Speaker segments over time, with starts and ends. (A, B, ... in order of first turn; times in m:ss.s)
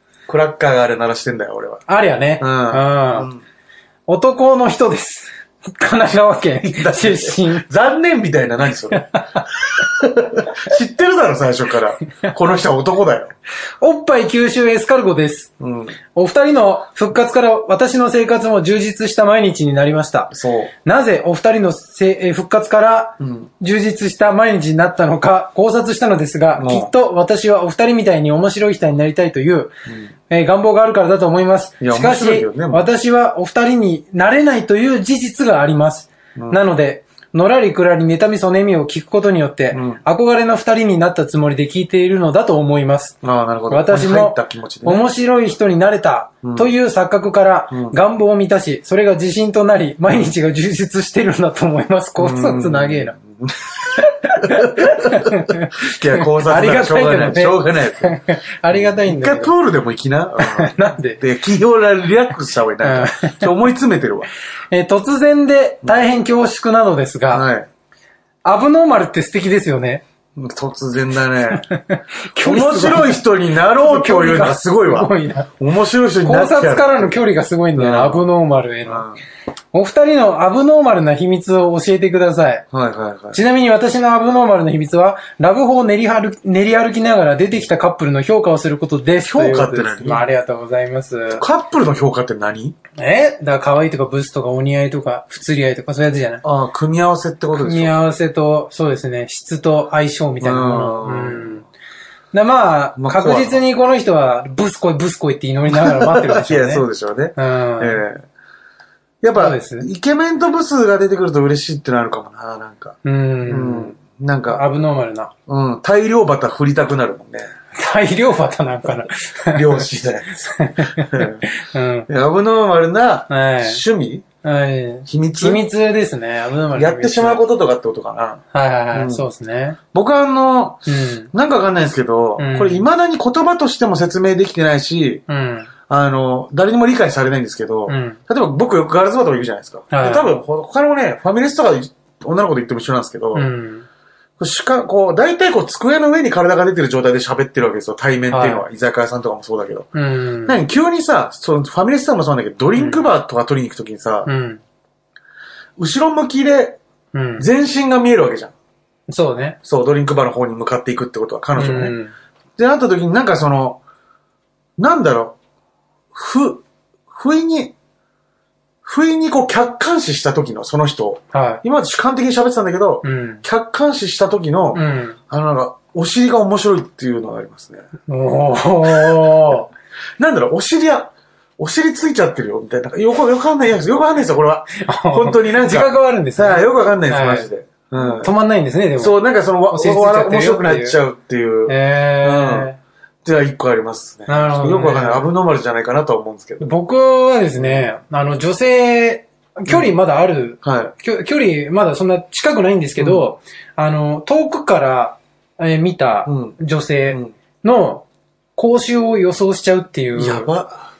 0:00.3-0:01.8 A
0:01.9-0:03.3 B
0:02.4-0:03.4 A
0:04.1-0:07.6 B
0:06.6-0:13.3 A
0:13.8-0:15.5 B
0:15.6-0:16.0 A
0:16.1-0:20.3 B
0:20.3-0:20.7 A
0:20.8-0:29.7 B
0:23.2-0:23.5 A
0:26.5-0:26.9 A
0:30.3-0:43.2 B
0:31.8-0:32.9 A
0:36.4-0:36.6 A
0:39.7-0:40.0 A
0:43.2-0:45.0 A
0:43.7-0:53.2 B
0:46.4-0:46.7 A
0:47.7-0:48.0 A
0:52.2-0:53.6 A
0:54.0-0:59.5 B
0:54.4-0:58.2 A
0:58.7-1:04.3 A
1:00.4-1:01.2 B
1:02.8-1:03.5 B
1:04.7-1:07.5 B
1:07.3-1:07.7 A
1:08.4-1:10.0 B
1:10.4-1:11.7 A
1:11.6-1:15.5 B
1:12.4-1:17.1 A
1:16.2-1:19.0 B
1:17.7-1:18.2 A
1:18.8-1:19.2 A
1:19.7-1:22.6 B
1:22.7-1:23.4 A
1:23.3-1:31.4 B
1:29.2-1:30.2 A
1:31.3-1:32.8 A
1:33.0-1:36.4 B
1:36.4-1:37.9 A
1:37.5-1:41.6 B
1:40.4-1:41.6 A
1:42.3-1:46.8 B
1:43.0-1:43.6 A
1:45.7-1:48.2 A
1:47.4-1:48.0 B
1:49.2-1:54.6 A
1:49.4-1:49.9 B
1:53.0-1:54.0 B
1:54.5-1:55.3 B
1:55.5-1:57.5 A
1:57.7-1:59.8 B
1:59.5-2:01.4 A
2:00.4-2:02.1 B
2:02.1-2:04.2 A
2:03.3-2:03.8 B
2:04.4-2:07.4 B
2:05.1-2:05.6 A
2:06.7-2:09.2 A
2:08.5-2:09.8 B
2:09.9-2:15.2 A
2:10.9-2:11.3 B
2:12.4-2:12.8 B
2:15.3-2:15.7 B
2:15.9-2:23.5 A
2:17.9-2:18.2 B
2:19.9-2:20.3 B
2:23.3-2:23.8 B
2:24.4-2:29.9 A
2:28.3-2:28.6 B
2:29.9-2:30.6 B
2:30.4-2:34.3 A
2:32.7-2:33.1 B
2:34.2-2:34.6 B
2:35.8-2:36.8 A
2:37.1-2:37.5 B
2:37.4-2:38.5 A
2:39.1-2:39.6 B
2:39.6-2:42.0 A
2:41.5-2:42.1 B
2:42.6-2:43.8 A
2:44.8-2:45.4 A
2:46.1-2:47.7 A
2:48.8-2:57.8 A
2:51.3-2:51.6 B
2:53.0-2:53.4 B
2:54.7-2:55.2 B
2:58.1-2:59.7 B
3:00.2-3:08.3 A
3:04.8-3:09.2 B
3:09.0-3:12.7 A
3:09.7-3:11.0 B
3:11.7-3:12.8 B
3:13.2-3:16.7 A
3:14.3-3:15.3 B
3:16.6-3:30.5 B
3:17.6-3:17.9 A
3:20.6-3:20.9 A
3:23.0-3:23.2 A
3:26.2-3:26.6 A
3:30.1-3:30.9 A